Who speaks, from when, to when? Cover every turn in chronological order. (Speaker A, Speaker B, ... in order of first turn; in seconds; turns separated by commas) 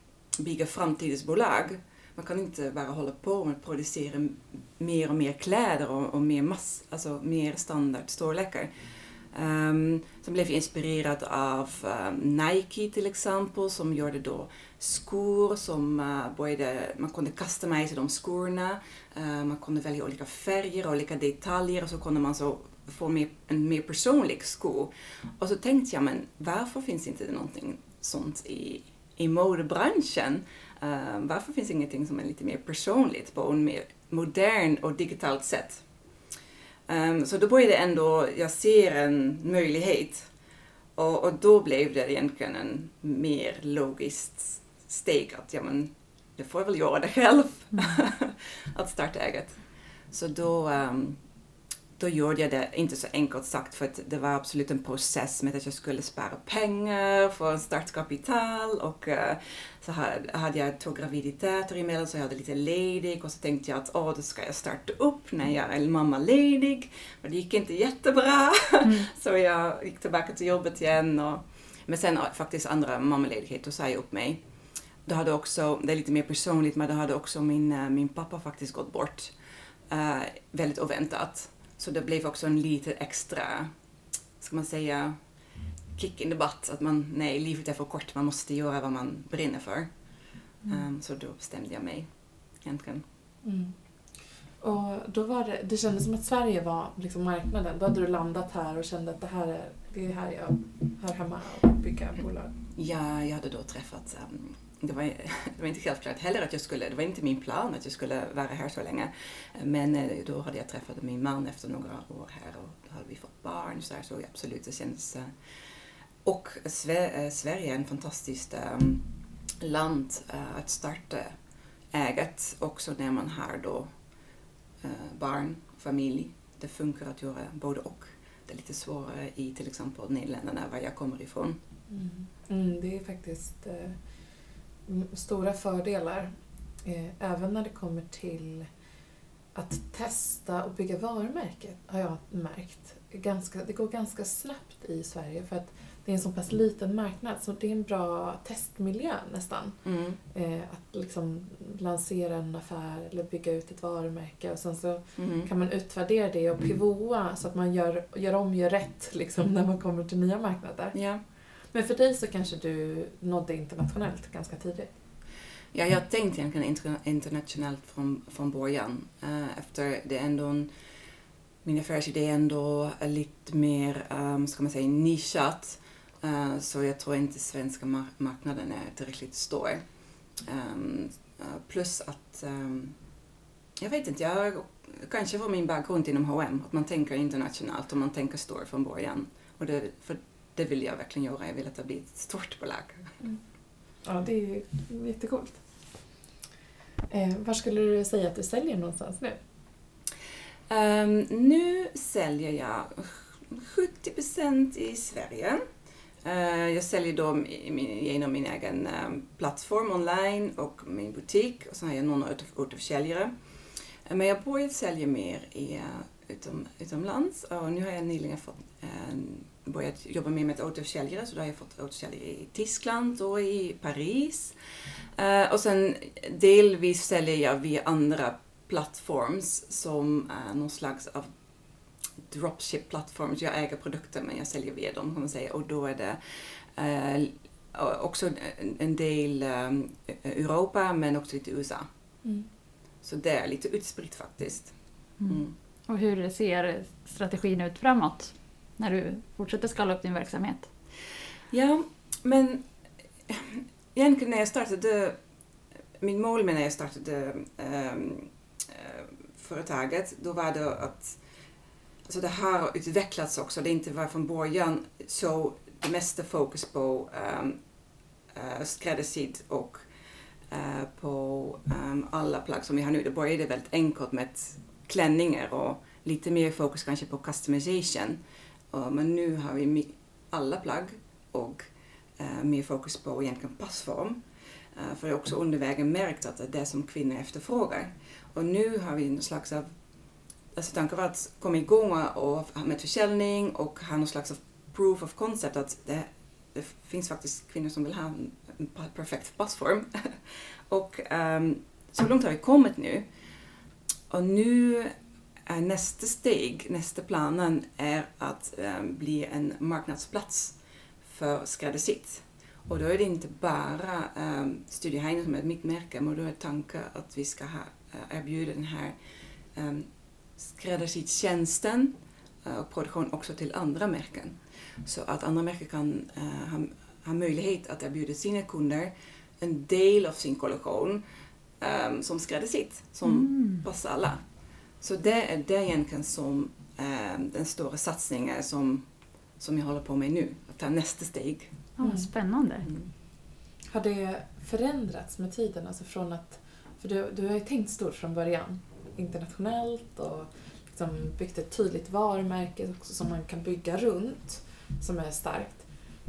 Speaker A: 0.4-35.8, Speaker A: 36.9-40.3, Speaker A: 41.0-49.6, Speaker A: 50.1-51.2, Speaker A: 52.0-74.4, Speaker A: 75.1-79.3, Speaker A: 79.9-83.7, Speaker A: 84.4-85.2, Speaker A: 86.0-89.9, Speaker A: 90.7-92.1, Speaker A: 92.6-93.0, Speaker B: 93.4-93.8, Speaker B: 94.6-102.5, Speaker A: 102.7-115.3, Speaker A: 116.2-119.1, Speaker A: 119.6-121.3, Speaker A: 121.9-123.9, Speaker A: 124.8-131.6, Speaker B: 131.9-134.0, Speaker B: 134.9-136.3, Speaker B: 136.8-138.7, Speaker B: 139.5-149.8, Speaker A: 149.8-150.2, Speaker B: 150.3-160.9, Speaker A: 155.2-155.5, Speaker A: 160.9-161.2, Speaker B: 161.7-164.9, Speaker A: 165.7-170.7, Speaker A: 171.6-179.8, Speaker A: 180.4-182.9, Speaker A: 183.8-193.1, Speaker B: 194.0-195.6, Speaker B: 197.1-199.4, Speaker A: 200.7-205.6, Speaker A: 206.2-213.3, Speaker A: 214.1-224.5, Speaker A: 225.2-231.3, Speaker A: 232.3-241.9, Speaker A: 243.0-244.7, Speaker C: 245.2-250.7, Speaker A: 245.2-245.5, Speaker A: 251.5-252.6, Speaker A: 253.3-255.2, Speaker A: 256.0-261.2, Speaker A: 262.1-267.6, Speaker A: 268.3-269.9, Speaker A: 270.5-278.2, Speaker A: 278.7-281.7, Speaker A: 282.2-284.2, Speaker A: 284.8-289.7, Speaker A: 290.6-303.1, Speaker A: 304.1-304.9, Speaker A: 305.5-318.9, Speaker A: 319.6-319.9, Speaker A: 320.4-331.0, Speaker A: 331.6-334.2, Speaker C: 333.0-333.6, Speaker A: 334.8-338.8, Speaker A: 339.4-341.6, Speaker C: 341.8-342.6, Speaker B: 341.8-342.1, Speaker A: 342.6-342.9, Speaker B: 343.7-355.6